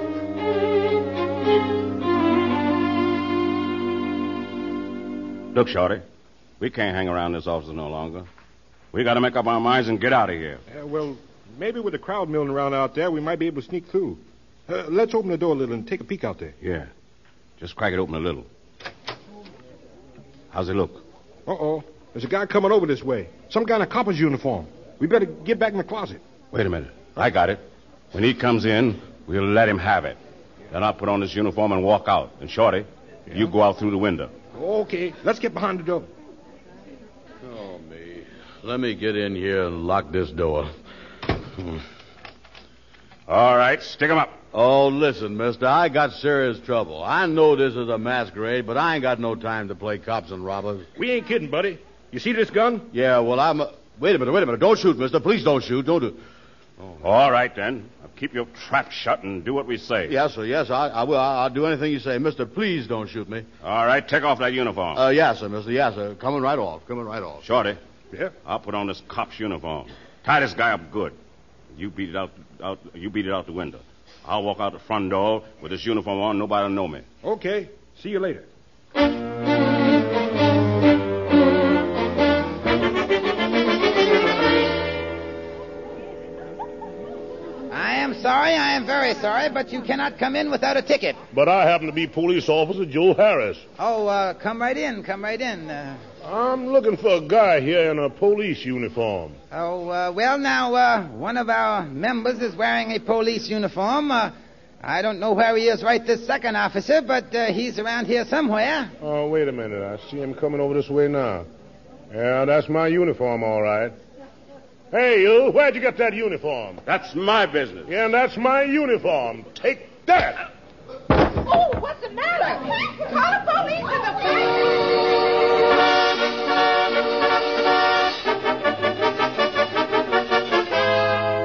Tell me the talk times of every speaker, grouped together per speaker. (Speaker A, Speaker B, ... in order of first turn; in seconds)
Speaker A: 5.5-6.0, 6.6-8.2, 8.9-10.6, 16.6-16.9, 17.6-18.4, 20.5-21.0, 26.5-27.6, 28.1-30.2, 30.7-34.3, 43.3-44.3, 57.0-60.1, 63.6-65.0, 67.4-67.8, 68.4-71.1, 71.7-77.0, 116.8-117.9
Speaker B: 10.7-16.6, 21.5-26.2, 34.5-36.1, 51.0-52.9, 77.2-78.5
Speaker C: 37.4-40.7, 44.5-50.9, 52.9-56.2, 60.0-63.5, 64.9-67.4
Speaker D: 87.7-91.2, 93.8-96.0, 99.5-108.9
Speaker E: 91.3-93.6, 96.2-99.3, 109.0-111.5, 112.1-113.9, 114.9-116.8, 117.9-120.4
Speaker F: 121.5-124.3